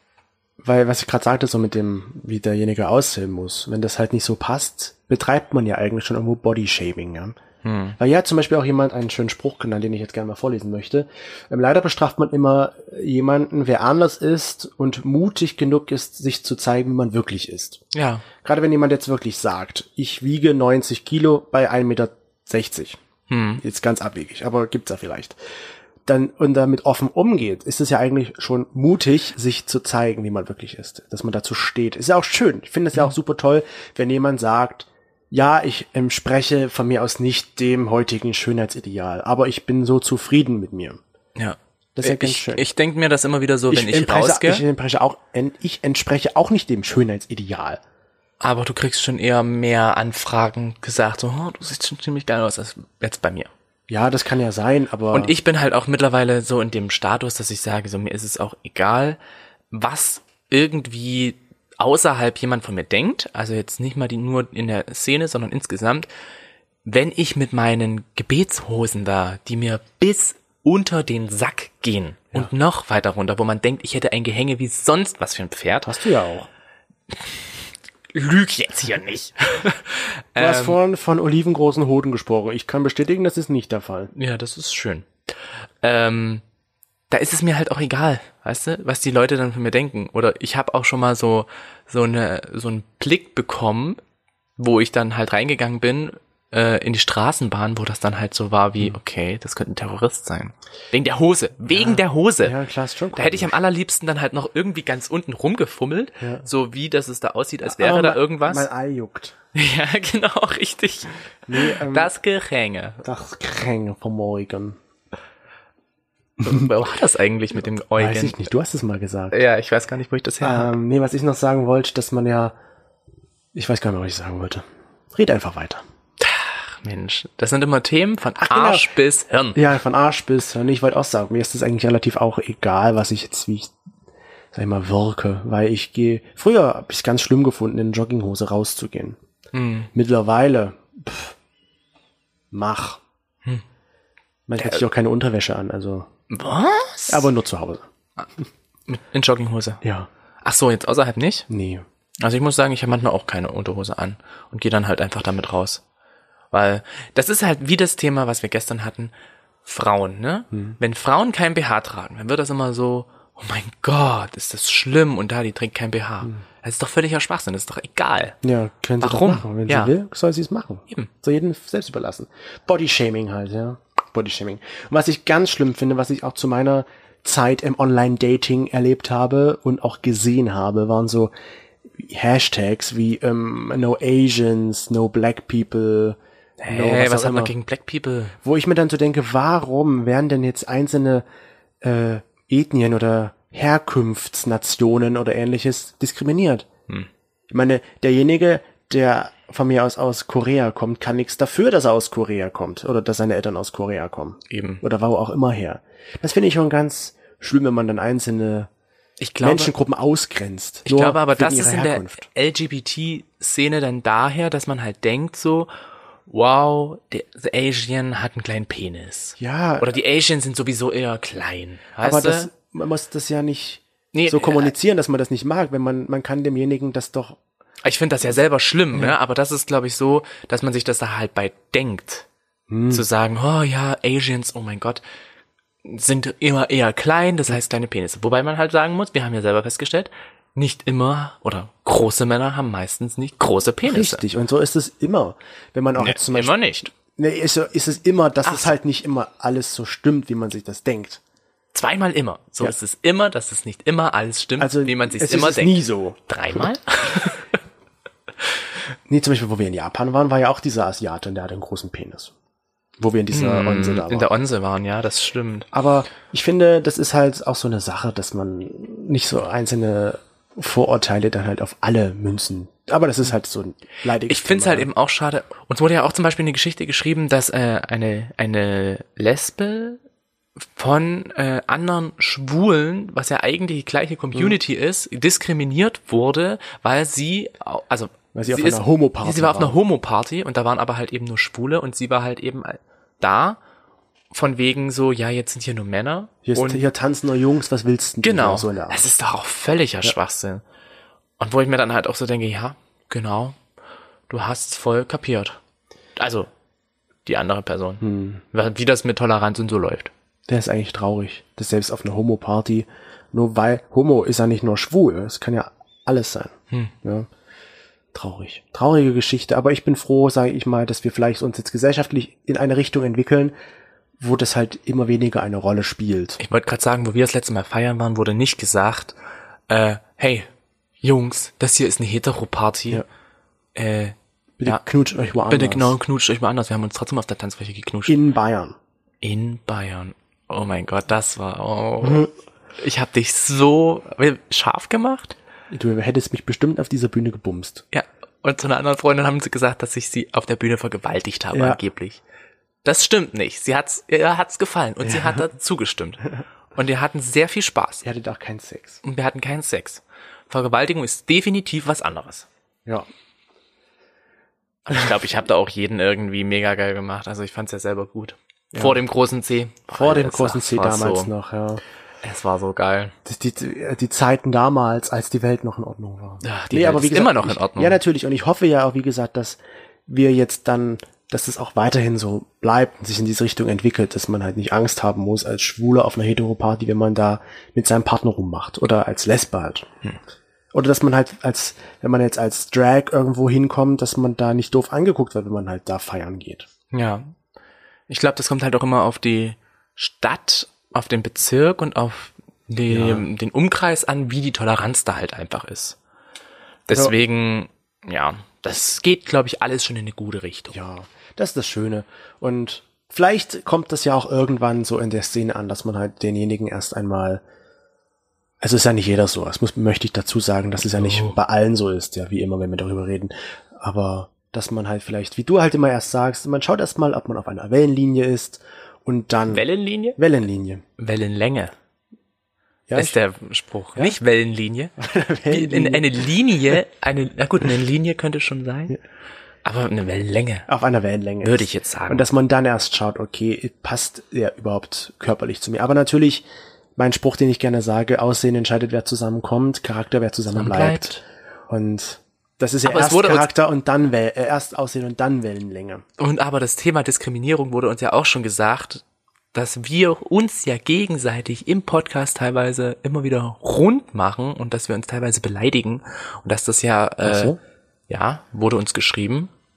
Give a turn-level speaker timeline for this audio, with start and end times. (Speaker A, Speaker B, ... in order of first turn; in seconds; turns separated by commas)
Speaker A: 0.6-7.4, Speaker B: 7.6-8.0, Speaker A: 8.0-17.8, Speaker B: 17.9-18.2, Speaker A: 18.4-23.0, Speaker B: 23.3-23.6, Speaker A: 23.6-25.4, Speaker A: 26.1-41.0, Speaker B: 41.4-44.6, Speaker A: 42.0-42.6, Speaker A: 43.7-47.8, Speaker B: 48.4-53.5, Speaker A: 53.9-55.3, Speaker B: 55.1-59.2, Speaker B: 59.7-66.1, Speaker B: 66.8-76.0, Speaker A: 75.8-76.5, Speaker B: 77.1-77.5, Speaker B: 78.1-80.8, Speaker A: 80.4-84.1, Speaker B: 84.1-85.1, Speaker B: 85.8-86.4, Speaker B: 87.1-94.0, Speaker B: 94.6-102.6, Speaker A: 101.7-103.6, Speaker B: 103.2-108.7, Speaker A: 106.2-106.5, Speaker A: 107.6-109.4, Speaker B: 109.5-113.0, Speaker A: 111.5-112.1, Speaker A: 113.0-114.8, Speaker A: 116.4-116.7, Speaker B: 116.4-118.4, Speaker A: 117.9-119.4, Speaker B: 119.3-120.7, Speaker A: 120.4-122.5, Speaker A: 123.5-125.8, Speaker B: 126.2-129.6, Speaker A: 128.4-128.9, Speaker A: 129.6-133.7, Speaker A: 134.5-139.2, Speaker B: 139.5-139.9, Speaker A: 139.9-141.3, Speaker A: 142.5-143.0, Speaker A: 144.5-146.1, Speaker B: 146.3-147.3, Speaker A: 147.1-147.9, Speaker B: 148.9-149.8, Speaker A: 149.8-150.1, Speaker B: 150.4-151.5, Speaker A: 151.5-151.8, Speaker B: 152.2-155.8, Speaker B: 156.5-159.1, Speaker B: 159.7-168.4, Speaker A: 168.4-181.3, Speaker B: 169.0-169.9, Speaker A: 182.0-186.2, Speaker B: 186.6-188.3, Speaker A: 186.7-187.5, Speaker A: 188.4-191.2, Speaker A: 191.8-196.7, Speaker A: 197.5-208.7, Speaker B: 204.5-204.8, Speaker B: 209.2-209.7, Speaker A: 209.4-212.2, Speaker B: 210.8-215.7, Speaker B: 216.3-222.5, Speaker A: 219.4-220.0, Speaker A: 222.0-227.4, Speaker B: 224.1-224.7, Speaker B: 227.8-232.3, Speaker A: 232.7-233.0, Speaker B: 232.9-235.0, Speaker B: 235.8-244.2, Speaker A: 243.8-251.2, Speaker B: 246.0-246.9, Speaker B: 248.4-248.7, Speaker B: 251.7-257.5, Speaker A: 254.6-256.7, Speaker A: 259.1-262.3, Speaker A: 263.0-264.3, Speaker B: 263.3-265.7, Speaker A: 265.7-274.9, Speaker B: 274.3-280.0, Speaker B: 280.6-293.6, Speaker A: 288.3-289.8, Speaker B: 294.3-296.8, Speaker A: 296.4-299.1, Speaker B: 298.2-300.6, Speaker B: 301.4-303.6, Speaker B: 304.3-305.6, Speaker B: 306.2-306.5, Speaker B: 307.3-310.1, Speaker A: 308.0-308.4, Speaker A: 310.5-317.3, Speaker A: 318.1-323.5, Speaker A: 324.2-326.4, Speaker B: 326.4-329.2, Speaker B: 329.7-330.5, Speaker B: 331.0-333.0, Speaker B: 333.8-334.8, Speaker A: 334.6-335.9, Speaker B: 335.5-338.2, Speaker A: 338.1-338.8, Speaker B: 339.2-345.4, Speaker A: 342.0-342.3, Speaker A: 345.7-347.8, Speaker B: 347.9-352.2, Speaker A: 351.5-351.8, Speaker B: 352.8-358.1, Speaker A: 355.1-355.4, Speaker A: 358.0-359.0, Speaker B: 359.0-362.5, Speaker B: 364.9-371.3, Speaker A: 368.7-369.0, Speaker A: 369.9-371.8, Speaker B: 372.2-373.1, Speaker A: 373.2-389.9, Speaker B: 376.4-378.0, Speaker A: 390.7-396.7, Speaker B: 396.9-397.3, Speaker B: 398.1-406.0, Speaker A: 402.9-403.3, Speaker B: 406.9-410.8, Speaker A: 410.7-417.4, Speaker A: 418.6-429.6, Speaker B: 420.9-421.4, Speaker B: 429.5-430.2, Speaker A: 430.2-430.8, Speaker B: 431.0-431.7, Speaker A: 432.9-433.2, Speaker B: 432.9-435.0, Speaker A: 435.0-436.2, Speaker B: 435.5-439.0, Speaker B: 439.6-440.7, Speaker A: 440.7-446.4, Speaker B: 441.4-442.3, Speaker A: 447.0-456.0, Speaker B: 450.5-451.2, Speaker B: 452.9-453.5, Speaker B: 456.2-467.6, Speaker A: 467.2-467.6, Speaker B: 468.1-469.5